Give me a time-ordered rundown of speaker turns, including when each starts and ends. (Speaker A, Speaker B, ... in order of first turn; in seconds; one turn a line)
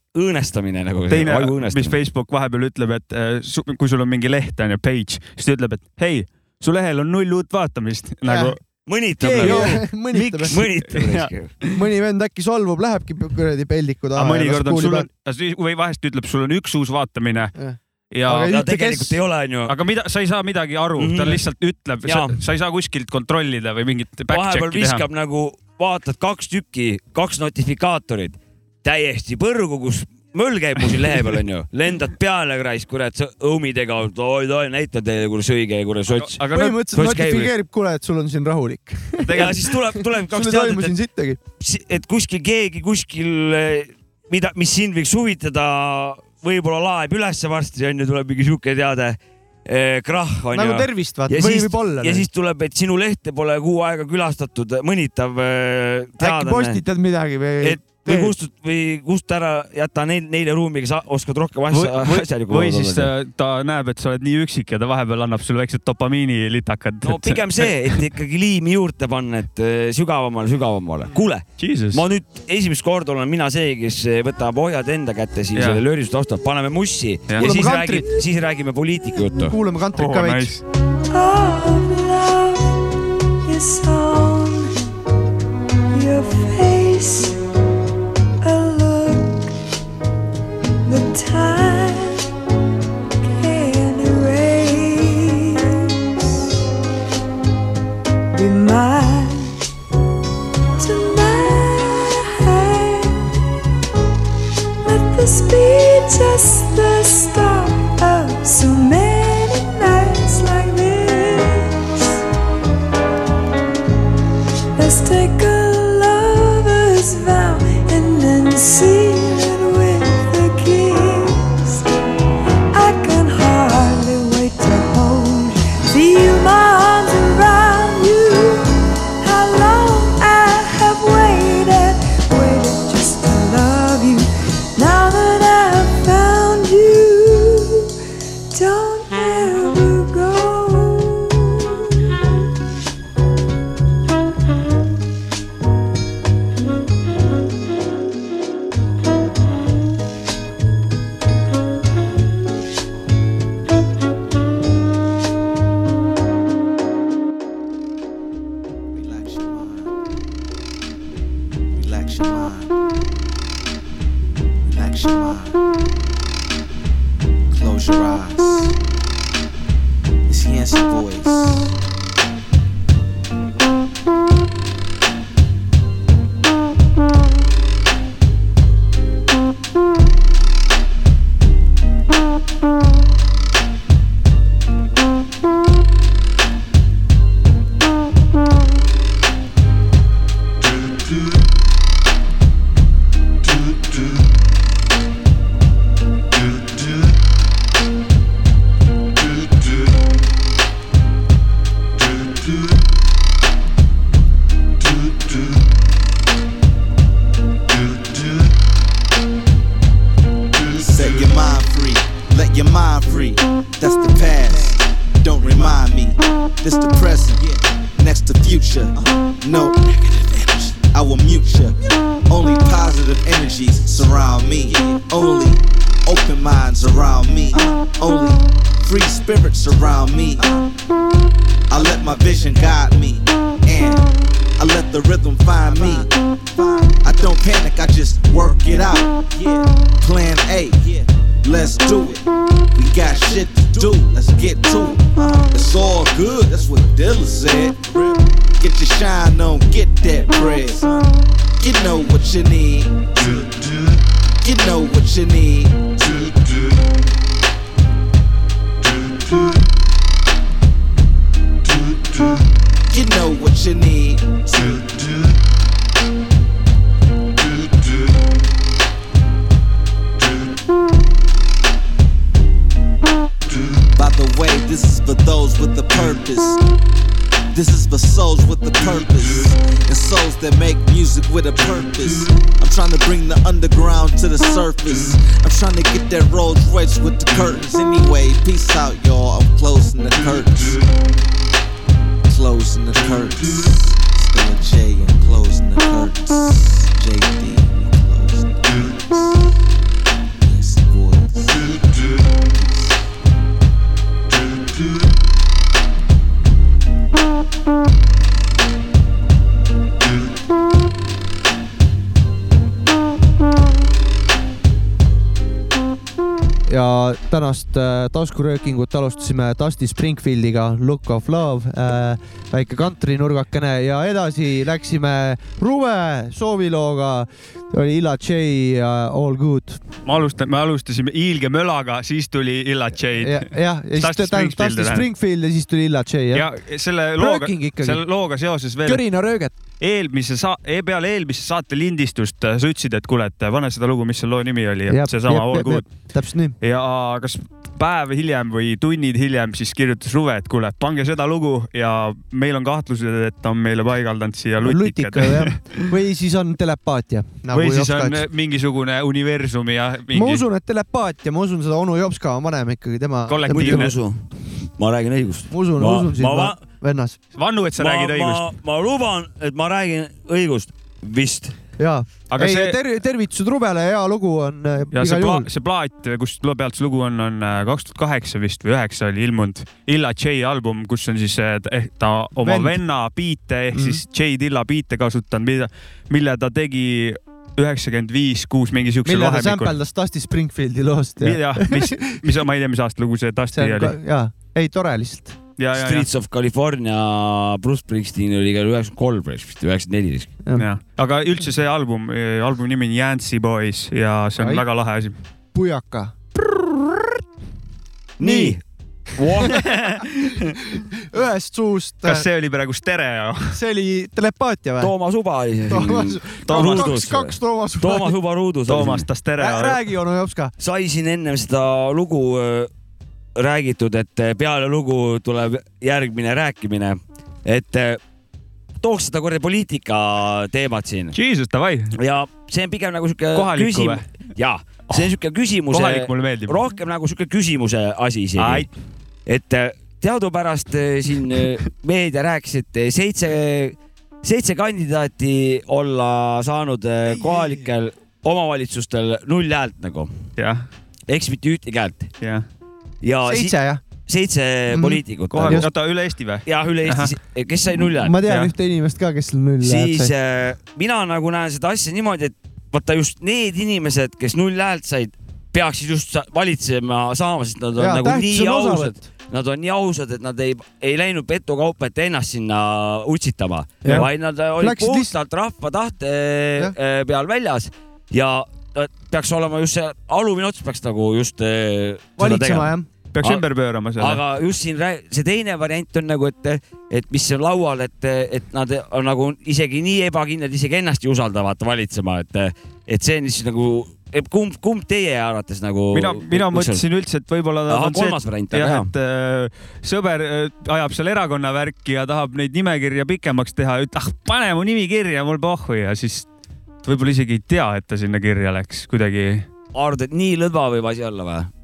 Speaker A: 0.1-2.0
Speaker B: 1.1-8.6
Speaker C: 8.3-8.5
Speaker A: 8.9-11.5
Speaker C: 9.2-10.6
Speaker B: 9.3-9.8
Speaker B: 10.5-11.7
Speaker C: 11.7-15.1
Speaker B: 14.2-17.5
Speaker C: 17.6-19.1
Speaker B: 18.1-18.7
Speaker A: 18.4-19.7
Speaker B: 19.7-25.0
Speaker A: 21.0-21.4
Speaker A: 22.0-22.4
Speaker A: 24.3-37.5
Speaker B: 36.1-36.9
Speaker C: 36.5-41.4
Speaker B: 39.2-39.6
Speaker A: 39.3-41.0
Speaker A: 41.6-56.8
Speaker C: 50.5-52.2
Speaker C: 56.2-58.3
Speaker A: 57.6-63.1
Speaker B: 61.7-68.0
Speaker A: 67.0-79.5
Speaker B: 71.6-72.0
Speaker B: 75.5-75.8
Speaker C: 77.4-78.0
Speaker C: 79.5-80.5
Speaker B: 79.9-80.6
Speaker D: 81.1-82.8
Speaker D: 83.4-84.7
Speaker D: 85.9-87.4
Speaker D: 88.4-89.5
Speaker D: 90.8-92.3
Speaker D: 93.2-96.5
Speaker D: 98.3-99.6
Speaker D: 100.8-103.2
Speaker D: 104.8-112.2
Speaker D: 114.8-121.9
Speaker D: 122.7-137.9
Speaker D: 138.5-141.9
Speaker E: 158.9-159.9
Speaker E: 161.7-162.8
Speaker E: 164.6-165.6
Speaker E: 167.5-168.8
Speaker E: 170.3-171.7
Speaker E: 210.8-221.8
Speaker E: 222.3-230.7
Speaker E: 231.7-253.5
Speaker E: 254.4-256.5
Speaker E: 262.9-265.0
Speaker E: 273.9-276.6
Speaker E: 277.5-290.8
Speaker E: 292.2-299.5
Speaker E: 300.4-301.8
Speaker E: 302.4-303.0
Speaker C: 316.7-329.8
Speaker B: 330.1-335.1
Speaker C: 333.2-336.4
Speaker B: 336.3-339.0
Speaker C: 337.2-338.0
Speaker C: 338.8-339.5
Speaker B: 339.8-345.9
Speaker C: 344.9-346.5
Speaker B: 346.6-355.8
Speaker C: 354.6-358.2
Speaker B: 357.5-360.4
Speaker C: 360.1-363.9
Speaker B: 363.3-363.9
Speaker A: 363.5-366.6
Speaker C: 365.5-367.2
Speaker B: 367.3-368.5
Speaker A: 367.8-371.5
Speaker C: 371.8-375.5
Speaker B: 372.3-372.8
Speaker B: 374.9-389.7
Speaker C: 382.4-382.8
Speaker C: 383.7-384.0
Speaker C: 389.0-392.2
Speaker B: 391.2-394.0
Speaker C: 393.5-395.4
Speaker B: 395.6-396.1
Speaker A: 395.7-400.3
Speaker B: 400.6-405.1
Speaker C: 404.4-404.6
Speaker C: 405.5-406.1
Speaker A: 408.2-408.6
Speaker C: 408.2-408.6
Speaker A: 409.1-409.6
Speaker B: 409.5-410.6
Speaker C: 410.9-412.2
Speaker B: 412.0-413.6
Speaker C: 413.5-414.9
Speaker A: 414.8-419.1
Speaker C: 415.7-418.1
Speaker B: 416.5-417.0
Speaker B: 418.7-419.8
Speaker C: 419.4-420.5
Speaker A: 420.6-422.7
Speaker A: 423.4-428.0
Speaker A: 428.8-431.1
Speaker B: 431.1-432.0
Speaker A: 431.9-438.7
Speaker B: 433.3-434.1
Speaker B: 435.7-436.7
Speaker B: 438.4-438.7
Speaker A: 439.2-450.1
Speaker B: 450.4-450.6
Speaker A: 451.1-452.1
Speaker A: 453.0-455.7
Speaker C: 453.2-453.8
Speaker C: 454.7-455.7
Speaker B: 455.3-457.1
Speaker A: 456.4-458.2
Speaker C: 458.0-460.1
Speaker B: 458.2-458.5
Speaker A: 459.6-483.4
Speaker C: 467.8-469.1
Speaker C: 473.8-475.1
Speaker C: 482.2-482.9
Speaker B: 483.1-484.2
Speaker A: 484.0-496.8
Speaker B: 495.9-506.3
Speaker A: 497.7-498.9
Speaker B: 506.8-509.4
Speaker A: 509.7-511.5